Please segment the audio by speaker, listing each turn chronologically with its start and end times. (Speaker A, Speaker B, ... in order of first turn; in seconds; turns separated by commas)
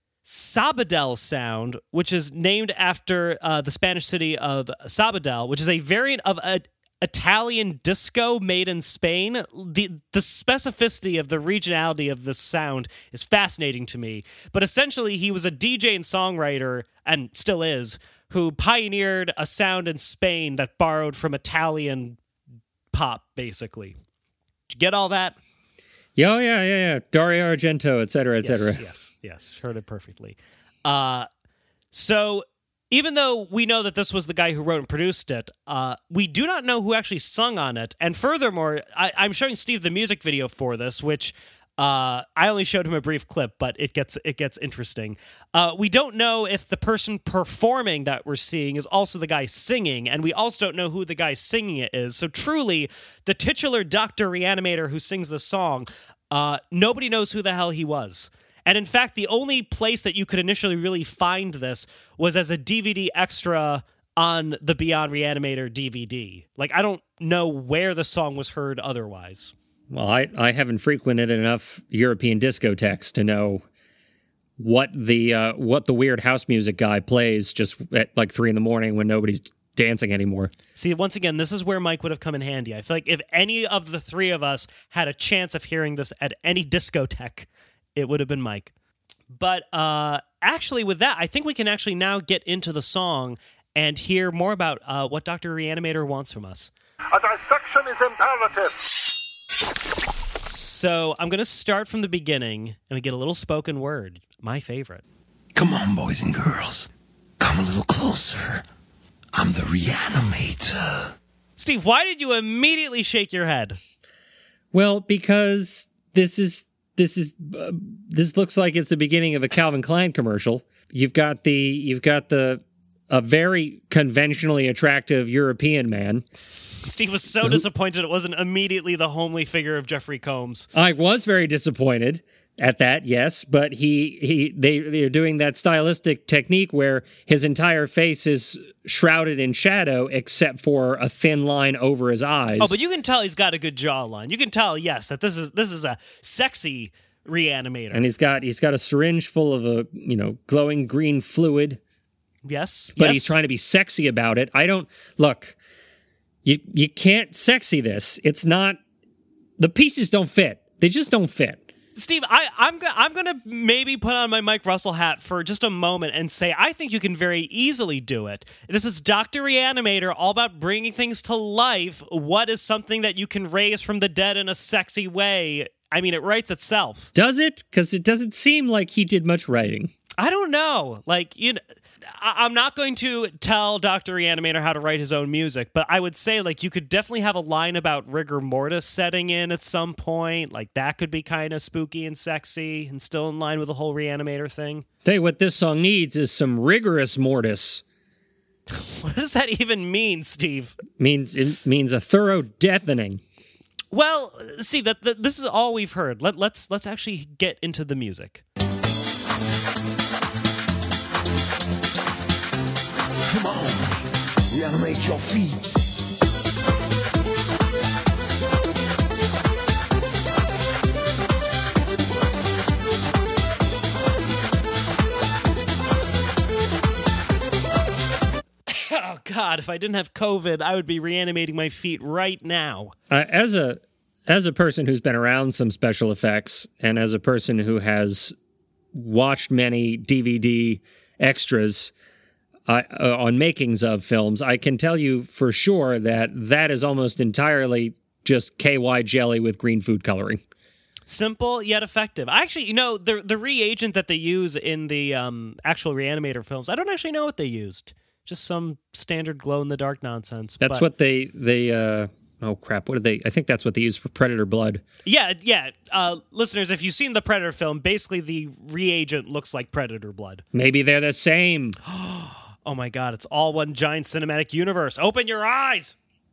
Speaker A: 0.2-22.2, Speaker A: 22.9-24.0, Speaker A: 24.7-25.4, Speaker B: 26.2-28.8, Speaker A: 28.4-31.3, Speaker A: 31.9-69.5, Speaker B: 69.9-73.7, Speaker B: 74.6-80.5, Speaker A: 80.8-88.7, Speaker A: 89.3-96.7, Speaker A: 100.5-105.0, Speaker C: 105.5-106.9, Speaker C: 107.4-108.6, Speaker C: 109.3-111.2, Speaker A: 111.6-113.8, Speaker B: 114.7-126.2, Speaker A: 126.8-130.7, Speaker B: 130.8-142.8, Speaker A: 142.6-148.1, Speaker B: 147.9-151.8, Speaker A: 152.5-153.3, Speaker B: 153.0-155.6, Speaker B: 156.4-158.8, Speaker B: 159.6-161.7, Speaker A: 161.9-177.1, Speaker B: 177.2-179.9, Speaker A: 180.2-194.8, Speaker B: 195.1-197.8, Speaker A: 198.7-200.8, Speaker B: 201.0-203.2, Speaker A: 203.9-208.4, Speaker C: 213.3-215.8, Speaker A: 228.7-232.9, Speaker B: 233.1-238.3, Speaker B: 238.9-241.9, Speaker B: 242.7-250.4, Speaker A: 251.1-260.9, Speaker B: 260.6-264.8, Speaker A: 265.1-270.4, Speaker B: 270.5-271.8, Speaker A: 271.9-276.0